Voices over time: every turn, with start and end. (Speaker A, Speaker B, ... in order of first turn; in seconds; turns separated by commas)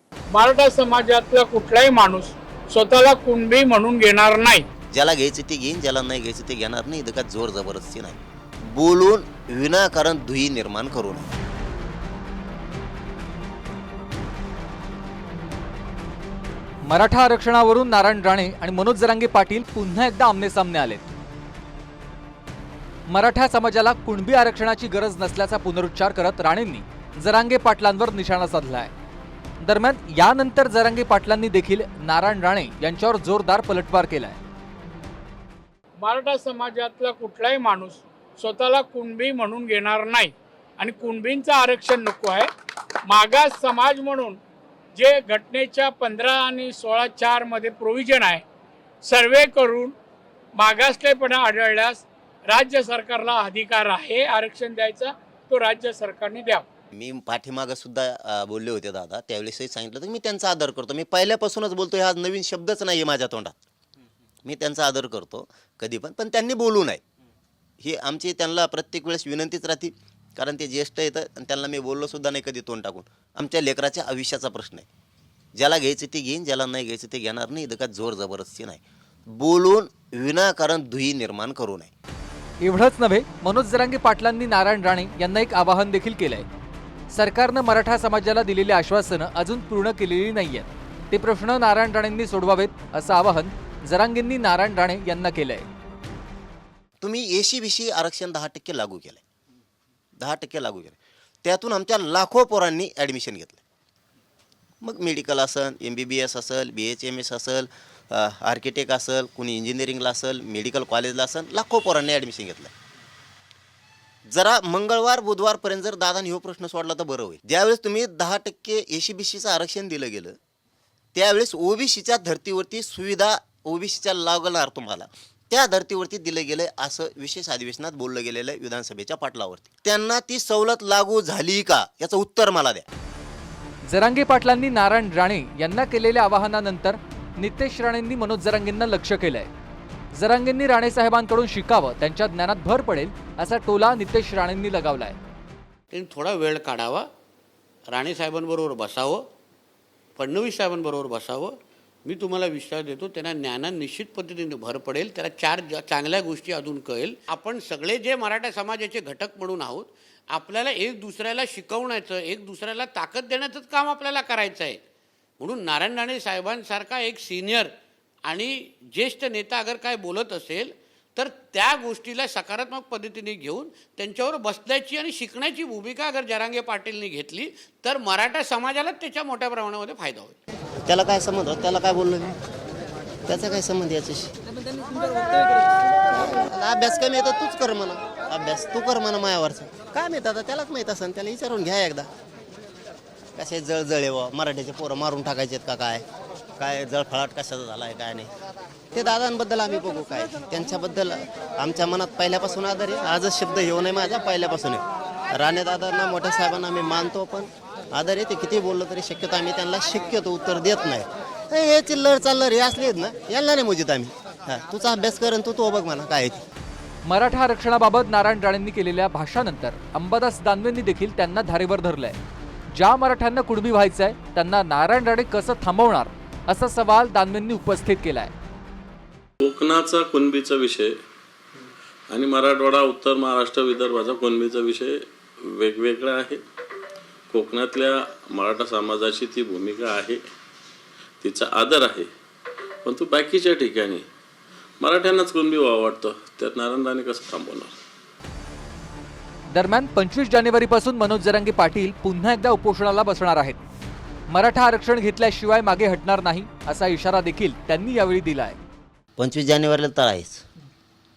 Speaker A: 0.3-4.6, Speaker B: 5.0-8.2, Speaker B: 8.7-11.3, Speaker C: 16.8-21.0, Speaker C: 23.1-28.9, Speaker C: 29.6-34.4, Speaker A: 36.0-42.4, Speaker A: 43.1-44.4, Speaker A: 45.0-48.4, Speaker A: 49.1-49.9, Speaker A: 50.6-56.6, Speaker B: 57.0-63.6, Speaker B: 64.5-67.0, Speaker B: 67.8-74.9, Speaker B: 75.6-81.9, Speaker C: 82.6-86.5, Speaker C: 87.1-95.7, Speaker B: 97.0-99.2, Speaker B: 100.2-103.6, Speaker B: 104.8-112.7, Speaker B: 114.3-120.4, Speaker B: 121.2-132.8, Speaker C: 133.9-139.5, Speaker C: 140.1-145.2, Speaker D: 145.9-147.1, Speaker D: 147.9-149.2, Speaker D: 150.2-164.8, Speaker D: 165.4-180.4, Speaker B: 180.9-182.4, Speaker B: 183.3-184.3, Speaker B: 186.1-192.1, Speaker B: 193.4-196.1, Speaker B: 196.6-198.3, Speaker B: 198.9-216.4, Speaker C: 217.1-222.2, Speaker C: 222.7-228.3, Speaker E: 229.4-230.9, Speaker E: 232.1-236.4, Speaker E: 237.3-240.2, Speaker E: 241.2-242.1, Speaker E: 242.8-244.1, Speaker E: 244.8-247.7, Speaker C: 249.5-253.6, Speaker C: 254.3-258.6, Speaker B: 259.2-260.4